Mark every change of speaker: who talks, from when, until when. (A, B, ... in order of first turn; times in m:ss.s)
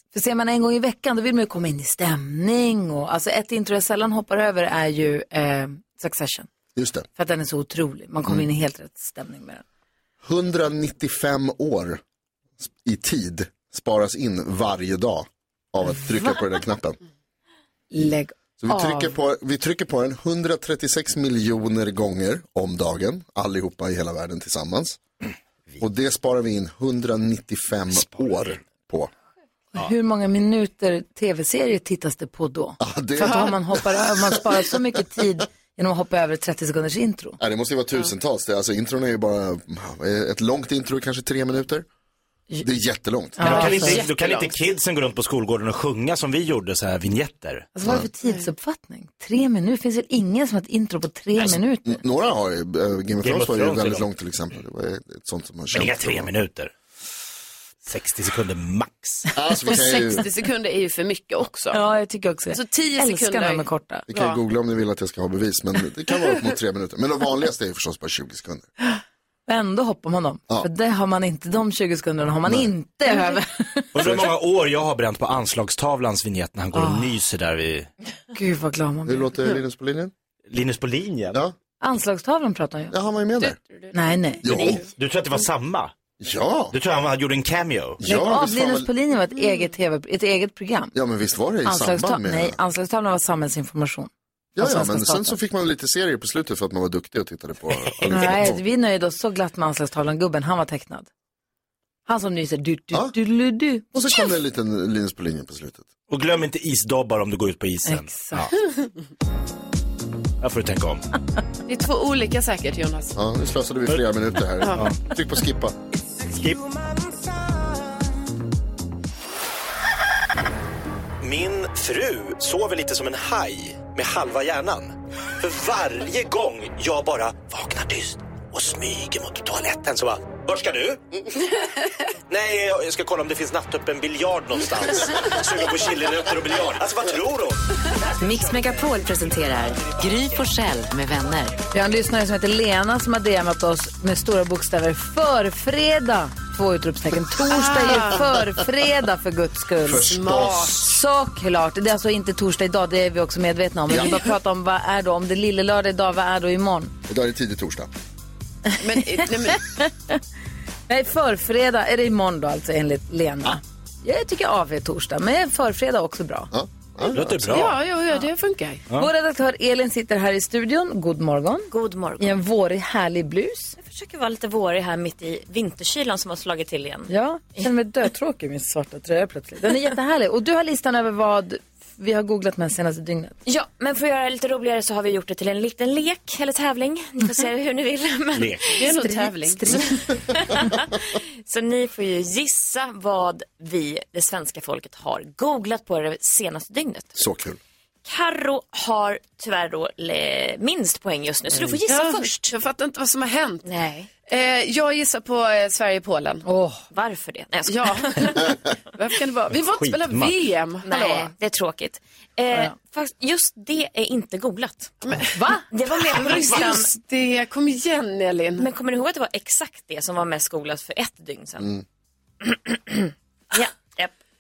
0:00.1-0:06.5 A
0:06.8-0:07.1 B
0:07.2-0:09.6 A
0:10.2-0:12.0 B
0:12.6-0:17.0 B
0:17.9-0:19.1 A
0:18.6-0:25.0 B
0:25.8-0:29.1 B
0:28.0-0:28.6 C
0:29.7-0:37.4 A
0:32.8-0:34.6 B
0:37.4-0:41.9 B
0:42.6-0:43.5 B
0:43.4-0:44.0 A
0:43.4-0:47.7 C
0:43.5-0:44.6 D
0:47.8-0:52.0 A
0:51.8-0:56.3 B
0:53.2-0:54.1 C
0:55.7-0:56.7 C
0:57.8-0:59.3 C
0:59.4-1:00.3 B
0:59.7-1:01.8 D
1:01.7-1:04.1 A
1:02.5-1:04.4 D
1:04.1-1:08.7 B
1:08.8-1:14.0 A
1:12.4-1:12.7 B
1:13.9-1:17.9 C
1:16.7-1:17.2 A
1:18.3-1:19.3 A
1:19.1-1:20.1 B
1:20.5-1:21.4 C
1:21.8-1:23.0 A
1:22.9-1:23.6 B
1:23.9-1:24.5 A
1:24.4-1:24.8 B
1:24.5-1:25.9 C
1:26.2-1:26.8 B
1:26.7-1:28.0 C
1:28.0-1:28.9 B
1:28.0-1:30.9 A
1:30.9-1:32.6 B
1:31.6-1:35.4 A
1:34.6-1:38.6 B
1:38.1-1:41.1 A
1:42.1-1:44.2 A
1:43.9-1:45.9 B
1:46.1-1:48.6 C
1:47.9-1:48.5 A
1:50.4-1:51.0 C
1:51.7-1:53.1 D
1:53.2-1:55.8 B
1:56.3-1:56.6 C
2:01.2-2:11.0 C
2:12.3-2:17.6 C
2:18.2-2:21.6 E
2:21.7-2:30.2 A
2:27.4-2:28.3 D
2:29.8-2:30.8 B
2:30.0-2:30.9 D
2:30.8-2:36.9 A
2:33.9-2:34.3 B
2:37.1-2:37.9 B
2:38.8-2:39.7 D
2:39.0-2:40.2 A
2:40.9-2:46.5 A
2:46.5-2:47.7 B
2:47.1-2:47.8 C
2:47.5-2:48.8 D
2:49.0-2:53.8 A
2:51.7-2:52.4 F
2:53.8-2:57.1 F
2:57.1-3:03.4 A
3:03.5-3:08.9 F
3:08.3-3:08.7 C
3:08.8-3:10.0 D
3:08.9-3:10.0 A
3:10.4-3:17.1 F
3:17.2-3:17.6 B
3:18.0-3:22.5 F
3:21.9-3:23.7 D
3:23.7-3:24.1 F
3:24.3-3:26.4 D
3:26.4-3:26.8 A
3:26.9-3:28.4 F
3:27.7-3:31.3 D
3:29.5-3:30.4 C
3:30.8-3:35.0 F
3:35.0-3:35.3 D
3:35.3-3:35.7 A
3:35.7-3:36.9 F
3:35.9-3:38.7 D
3:38.6-3:41.7 F
3:42.4-3:44.1 F